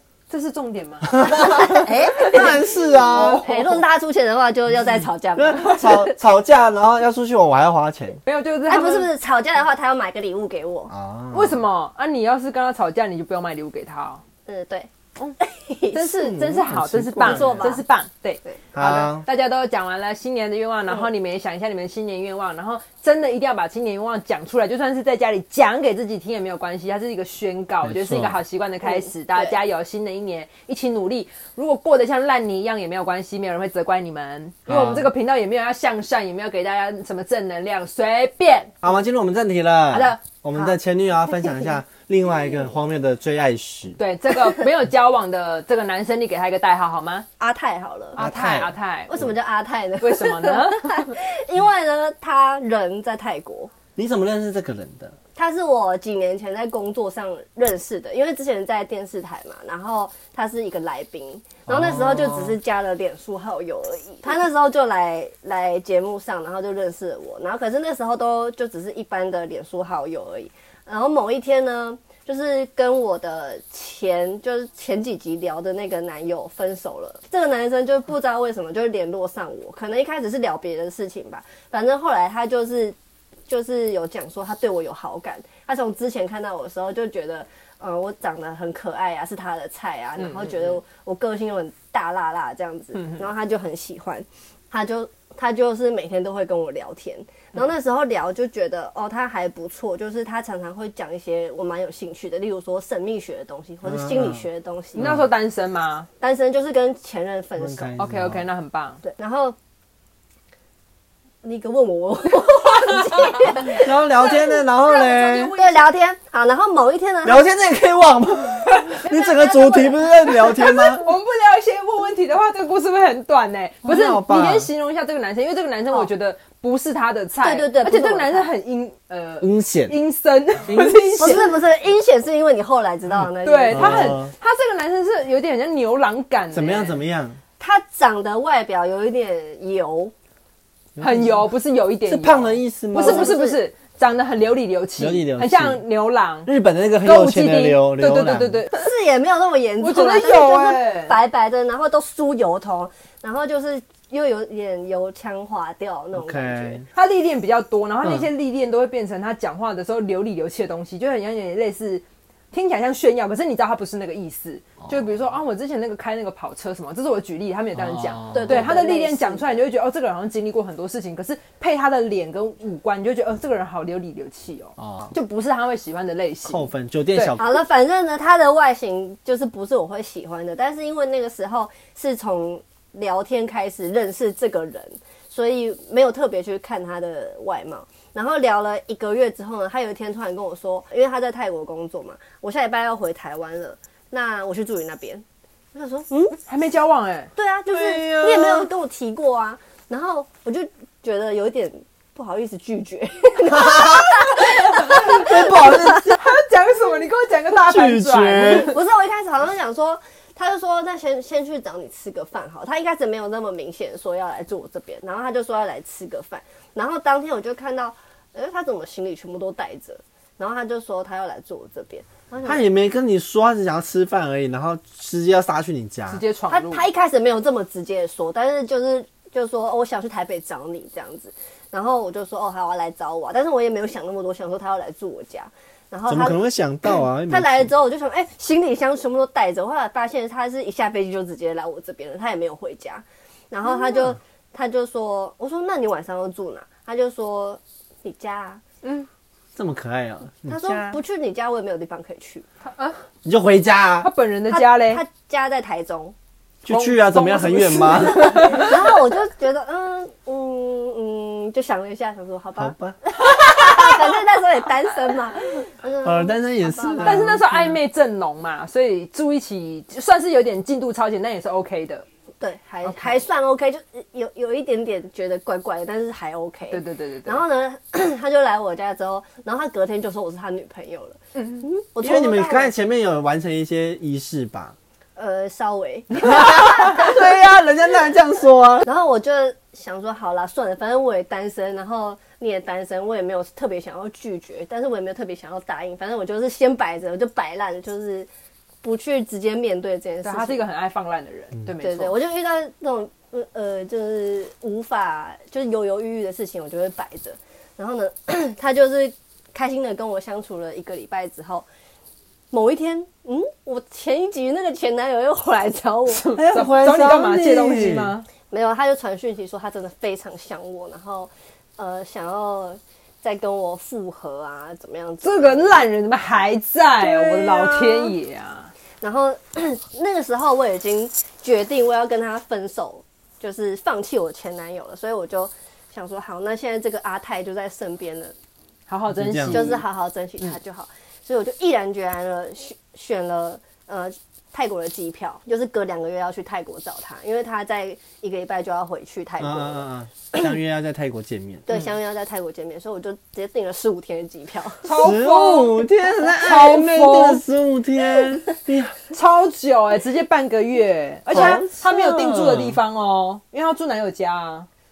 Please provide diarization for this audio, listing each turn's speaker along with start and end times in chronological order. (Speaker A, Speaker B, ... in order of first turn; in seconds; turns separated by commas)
Speaker A: 0.3-1.2, Speaker B: 1.1-3.6, Speaker C: 1.2-6.2, Speaker B: 5.4-8.2, Speaker A: 8.2-9.1, Speaker C: 8.7-10.9, Speaker B: 10.9-11.6, Speaker A: 11.3-14.2, Speaker C: 14.5-16.1, Speaker A: 15.9-38.9, Speaker B: 16.1-17.7, Speaker C: 17.2-17.8, Speaker B: 18.7-19.2, Speaker B: 27.8-28.4, Speaker C: 28.8-29.6, Speaker B: 34.7-35.1, Speaker B: 38.8-44.0, Speaker A: 39.9-40.2, Speaker A: 44.0-47.2, Speaker C: 47.4-48.2, Speaker A: 48.1-49.1, Speaker B: 48.2-48.7, Speaker C: 49.1-53.7, Speaker A: 50.0-51.1, Speaker B: 54.0-55.1, Speaker C: 55.4-83.0, Speaker B: 61.7-62.6, Speaker C: 83.5-105.1, Speaker A: 90.2-90.6, Speaker A: 92.9-93.2, Speaker B: 103.8-104.5, Speaker A: 105.0-106.1, Speaker B: 105.0-105.2, Speaker C: 106.2-108.0, Speaker B: 107.6-108.4, Speaker A: 108.0-109.0, Speaker C: 109.0-109.5, Speaker C: 111.4-114.4, Speaker B: 113.7-115.5, Speaker A: 114.8-115.8, Speaker C: 115.5-117.5, Speaker B: 117.2-121.0, Speaker C: 119.0-120.6, Speaker A: 121.0-131.5, Speaker B: 123.8-124.7, Speaker C: 127.4-128.5, Speaker B: 129.4-130.0, Speaker B: 130.6-131.4, Speaker C: 131.2-134.2, Speaker A: 133.4-137.0, Speaker B: 133.7-134.3, Speaker B: 136.5-137.4, Speaker C: 137.6-140.1, Speaker B: 140.9-141.5, Speaker A: 141.0-146.5, Speaker B: 142.1-143.4, Speaker C: 142.9-143.6, Speaker B: 145.0-145.8, Speaker B: 146.4-148.6, Speaker A: 147.0-148.8, Speaker C: 148.7-156.8, Speaker A: 149.8-151.2, Speaker B: 156.1-156.9, Speaker A: 156.9-177.3, Speaker B: 158.0-158.3, Speaker B: 167.7-168.7, Speaker C: 168.3-169.5, Speaker B: 174.8-175.1, Speaker B: 176.4-177.6, Speaker C: 177.4-196.4, Speaker A: 196.5-197.3, Speaker C: 197.3-205.7, Speaker B: 197.7-198.7, Speaker B: 203.5-204.3, Speaker A: 204.6-208.8, Speaker B: 204.9-206.1, Speaker B: 207.5-208.7, Speaker C: 208.4-222.6, Speaker B: 222.4-226.2, Speaker A: 226.1-226.9, Speaker C: 226.5-236.4, Speaker B: 236.1-237.7, Speaker C: 237.3-248.6, Speaker A: 248.8-249.1, Speaker B: 249.5-251.0, Speaker C: 250.5-252.4, Speaker A: 252.6-253.0, Speaker B: 253.2-254.1, Speaker A: 254.0-255.0, Speaker C: 254.5-256.1, Speaker B: 256.6-258.7, Speaker A: 256.6-258.8, Speaker C: 258.3-267.4, Speaker B: 262.6-263.0, Speaker B: 266.0-267.8, Speaker A: 267.0-272.0, Speaker C: 272.4-282.7, Speaker A: 272.8-273.2, Speaker A: 276.7-277.4, Speaker A: 281.4-281.6, Speaker B: 282.0-284.8, Speaker C: 285.1-287.1, Speaker B: 286.2-288.9, Speaker C: 288.8-298.3, Speaker C: 298.8-300.6, Speaker A: 300.2-302.1, Speaker C: 301.8-311.6, Speaker C: 312.5-316.2, Speaker A: 316.1-318.3, Speaker B: 316.3-318.1, Speaker C: 318.5-325.8, Speaker A: 325.2-328.7, Speaker C: 327.0-328.1, Speaker C: 329.0-338.3, Speaker A: 338.9-339.8, Speaker B: 339.1-339.8, Speaker C: 339.4-349.9, Speaker B: 349.4-351.6, Speaker C: 351.7-355.1, Speaker A: 354.8-357.4, Speaker B: 354.9-359.0, Speaker A: 359.1-364.7, Speaker B: 361.3-362.8, Speaker C: 361.3-361.8